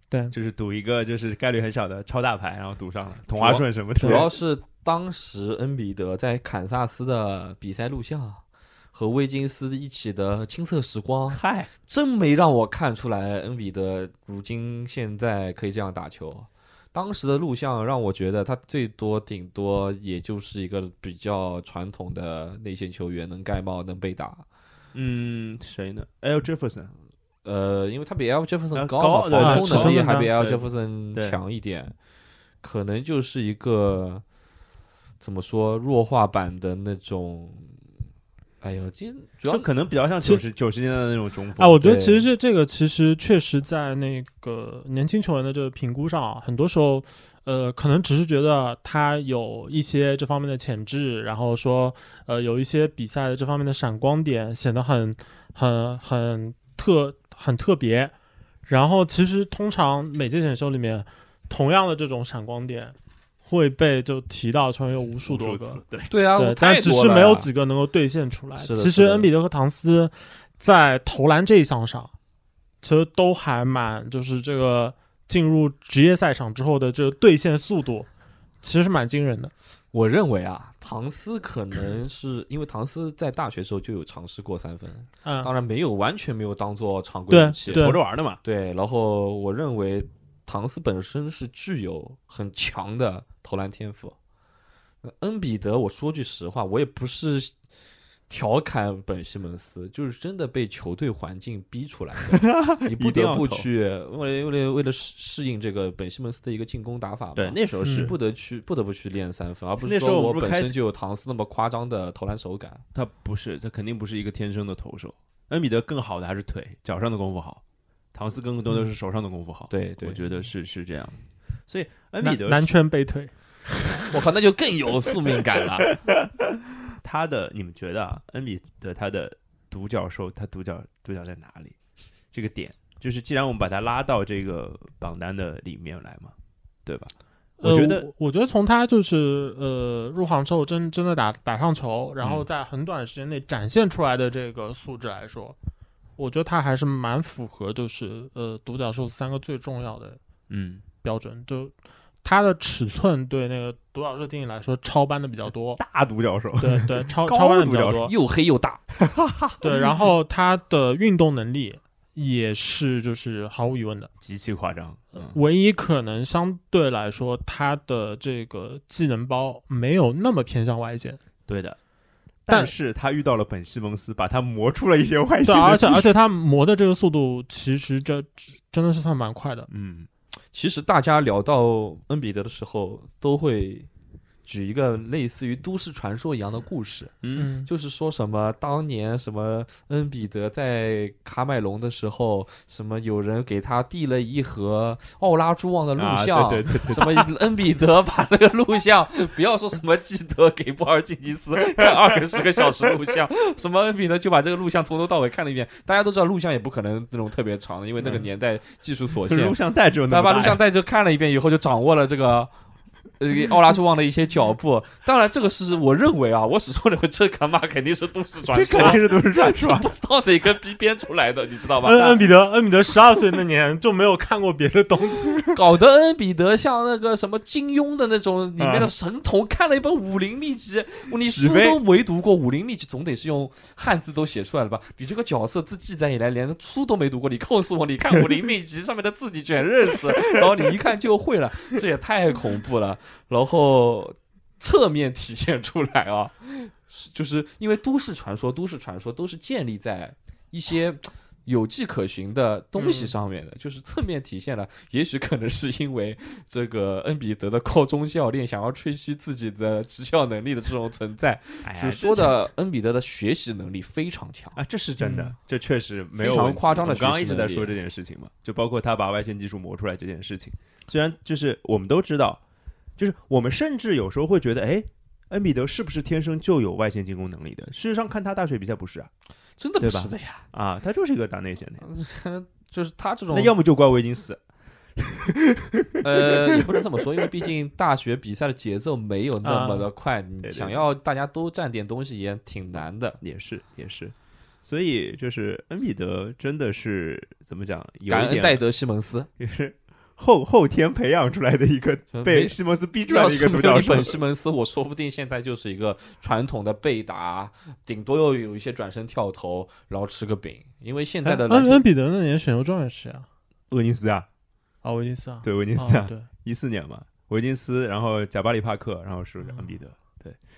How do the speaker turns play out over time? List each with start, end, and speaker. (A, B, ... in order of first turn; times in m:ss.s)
0:00.3-0:04.3 A
0:03.4-0:24.4 B
0:04.0-0:04.2 C
0:11.3-0:11.7 A
0:24.9-0:26.9 A
0:27.4-0:31.9 B
0:28.7-0:31.4 A
0:29.4-0:30.3 C
0:32.6-0:34.2 B
0:35.2-0:37.7 B
0:38.6-0:39.7 B
0:39.5-0:41.8 A
0:41.6-0:58.1 C
0:41.8-0:42.2 B
0:58.7-1:05.8 C
1:05.3-1:06.1 A
1:06.1-1:07.5 B
1:06.4-1:12.1 C
1:08.6-1:09.3 B
1:12.8-1:18.1 C
1:18.6-1:19.5 C
1:19.9-1:34.2 B
1:25.2-1:25.5 C
1:27.3-1:28.0 C
1:27.7-1:28.4 A
1:35.0-1:37.5 B
1:38.3-1:52.8 B
1:42.3-1:43.7 A
1:47.4-1:48.1 A
1:47.8-1:48.1 C
1:49.8-1:50.7 A
1:52.9-1:57.6 A
1:58.1-2:02.7 A
1:59.7-2:00.2 B
2:02.2-2:03.3 C
2:04.1-2:05.9 B
2:07.0-2:11.7 A
2:12.3-2:16.3 A
2:16.8-2:18.1 A
2:17.6-2:25.6 C
2:26.2-2:30.2 C
2:30.5-2:30.8 A
2:31.0-2:31.7 C
2:32.2-2:35.8 C
2:35.8-2:38.1 A
2:36.6-2:38.1 C
2:38.0-2:38.8 B
2:39.0-2:39.6 A
2:39.6-2:44.1 C
2:44.2-2:45.4 A
2:45.1-2:51.2 C
2:51.5-2:51.8 A
2:52.4-2:56.1 A
2:55.4-2:59.7 C
2:59.7-3:00.1 A
3:00.5-3:03.9 B
3:04.4-3:32.5 B
3:07.2-3:07.5 A
3:07.4-3:07.7 C
3:16.0-3:17.3 A
3:29.2-3:30.6 A
3:33.2-3:42.2 B
3:38.5-3:39.9 A
3:41.8-3:45.6 C
3:45.5-4:24.6 B
3:48.6-3:48.9 A
3:51.2-3:51.8 A
4:12.8-4:13.1 C
4:21.6-4:22.3 A
4:24.6-4:32.4 A
4:25.0-4:25.3 C
4:26.2-4:27.7 B
4:33.0-4:39.1 A
4:39.6-4:40.4 B
4:39.8-4:41.9 A
4:41.8-4:43.5 B
4:43.3-4:44.4 A
4:45.0-4:46.7 A
4:46.0-4:53.2 B
4:49.4-4:49.9 C
4:50.4-4:50.8 A
4:53.2-4:58.6 A
4:58.1-4:59.3 B
4:59.4-5:04.2 A
5:02.1-5:11.8 B
5:11.2-5:13.2 C
5:13.7-5:14.2 A
5:14.8-5:16.3 C
5:15.4-5:20.4 A
5:19.4-5:19.7 C